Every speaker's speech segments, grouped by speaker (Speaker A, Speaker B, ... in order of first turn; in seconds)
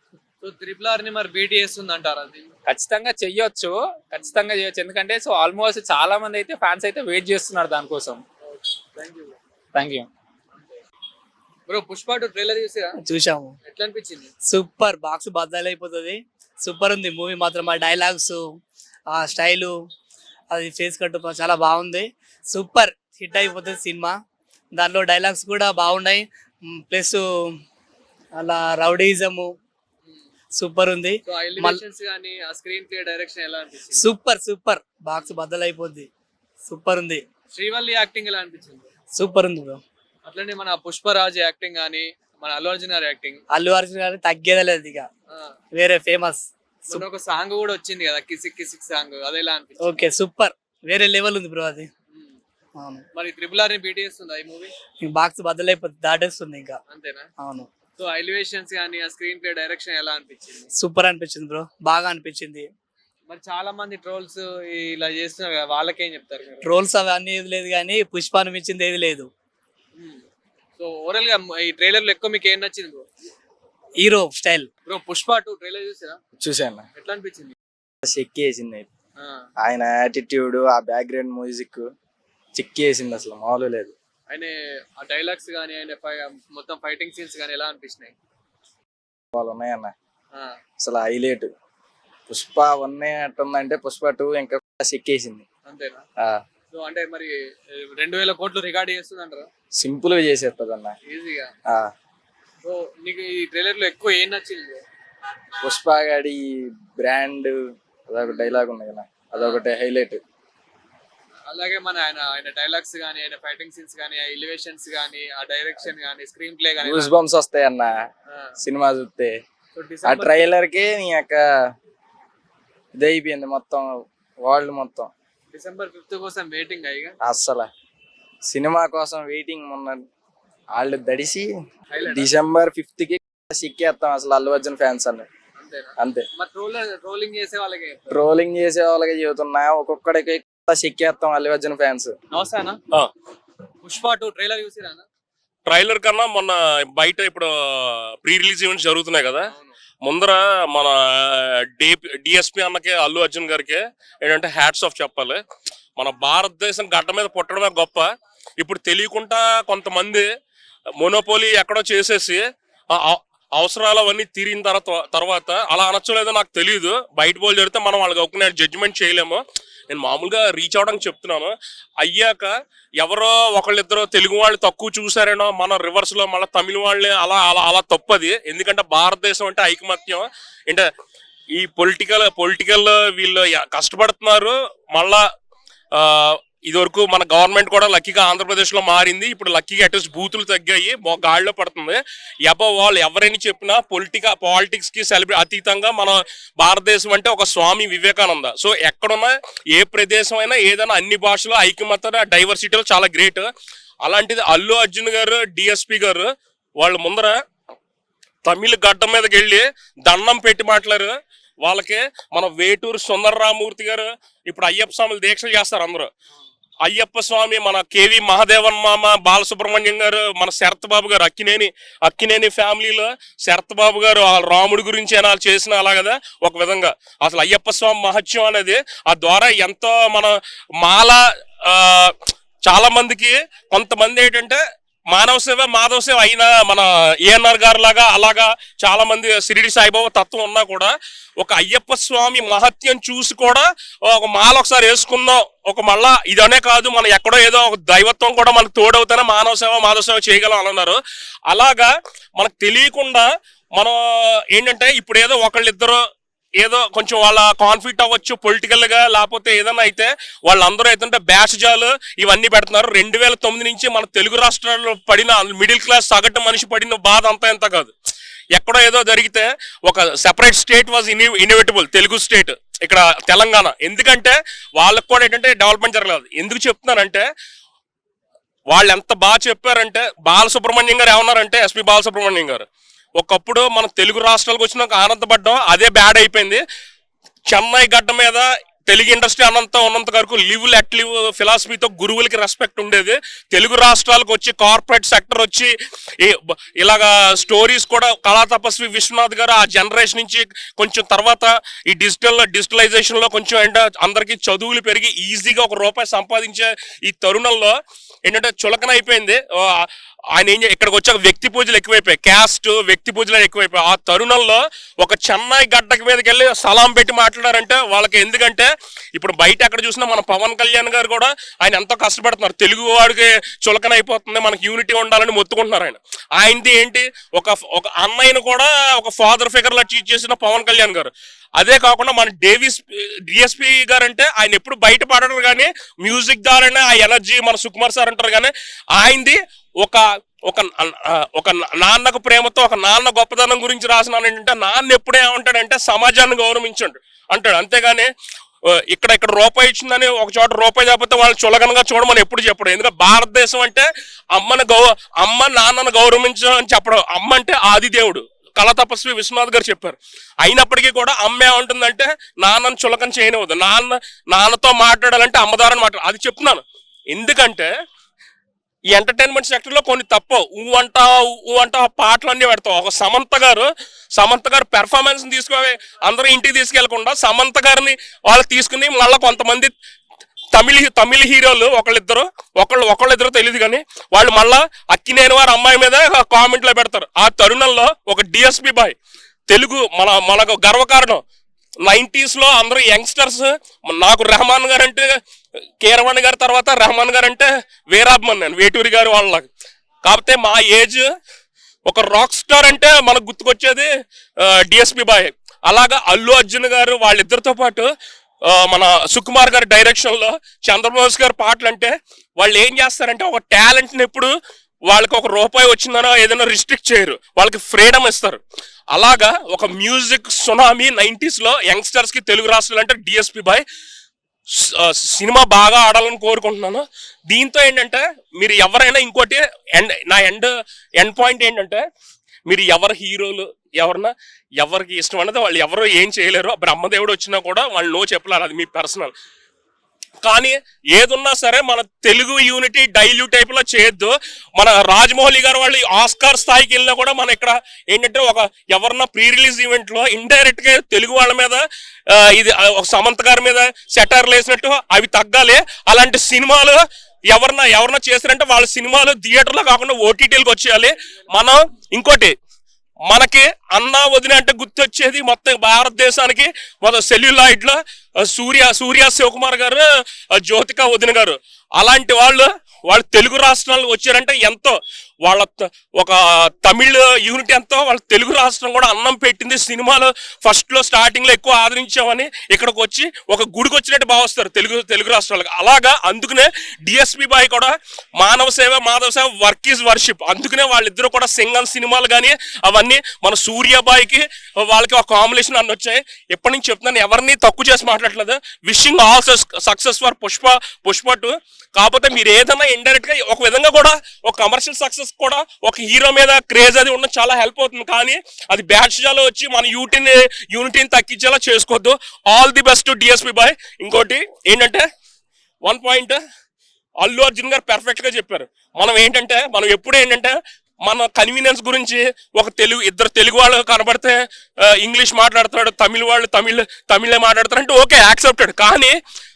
Speaker A: 0.4-2.5, 4.2-4.4, 8.5-9.4, 10.5-10.8, 11.7-13.0, 13.7-14.3, 31.3-34.0, 37.5-38.9, 40.3-43.4, 46.9-50.0, 52.1-52.4, 53.1-54.7, 56.9-57.3, 58.0-60.7, 63.3-66.7, 70.0-70.2, 70.8-73.1, 74.9-76.2, 77.0-77.5, 79.2-79.5, 84.3-88.1, 95.7-96.0, 96.7-99.5, 101.1-101.5, 102.6-104.8, 109.3-109.6, 111.5-117.1, 119.8-120.5, 125.5-127.2, 131.9-132.3, 135.6-138.2, 142.3-142.8, 143.8-145.1, 149.5-149.8
Speaker B: 2.7-8.2, 9.8-10.1
Speaker C: 13.1-13.5, 14.5-18.6, 19.1-19.8, 20.5-24.1, 24.8-27.6, 28.4-29.5, 30.5-31.8, 34.0-36.1, 36.7-37.2, 39.1-39.8, 43.5-45.1, 45.7-47.0, 49.8-51.9, 52.8-53.0, 55.0-56.8, 57.4-57.7, 60.8-62.7, 66.6-69.3, 74.0-74.7
Speaker D: 76.4-76.8, 78.0-78.9, 79.6-81.9, 82.5-84.0, 89.3-89.9, 90.8-91.5, 92.3-95.5, 99.8-101.0, 105.6-107.5, 108.1-110.2, 116.8-118.1, 118.6-119.3, 120.0-121.4, 123.0-123.9, 124.4-125.1, 127.2-127.7, 128.4-130.1, 130.7-131.5, 132.1-135.3, 136.0-136.2, 138.1-142.2
Speaker E: 145.7-149.5, 150.0-155.4, 156.0-158.1, 158.6-160.3, 161.0-162.4, 162.9-180.9, 181.6-185.2, 185.9-203.5, 204.0-207.3, 208.4-216.1, 216.8-232.1, 232.7-234.6, 235.1-251.0, 251.5-253.9, 254.5-256.0, 256.6-267.9, 268.6-277.2, 278.7-282.6, 283.2-286.6, 287.5-307.7, 308.2-348.1, 348.9-367.7, 368.9-379.7, 380.6-389.0, 389.5-391.2, 391.9-395.1, 395.8-399.5, 400.1-401.1, 401.9-403.9, 404.4-407.9, 408.5-414.3, 414.9-418.4, 418.9-423.6, 424.6-431.8, 432.5-439.1, 440.2-451.6, 452.1-462.3, 463.1-469.8, 470.4-514.8, 515.6-516.2, 517.0-524.2, 524.8-529.0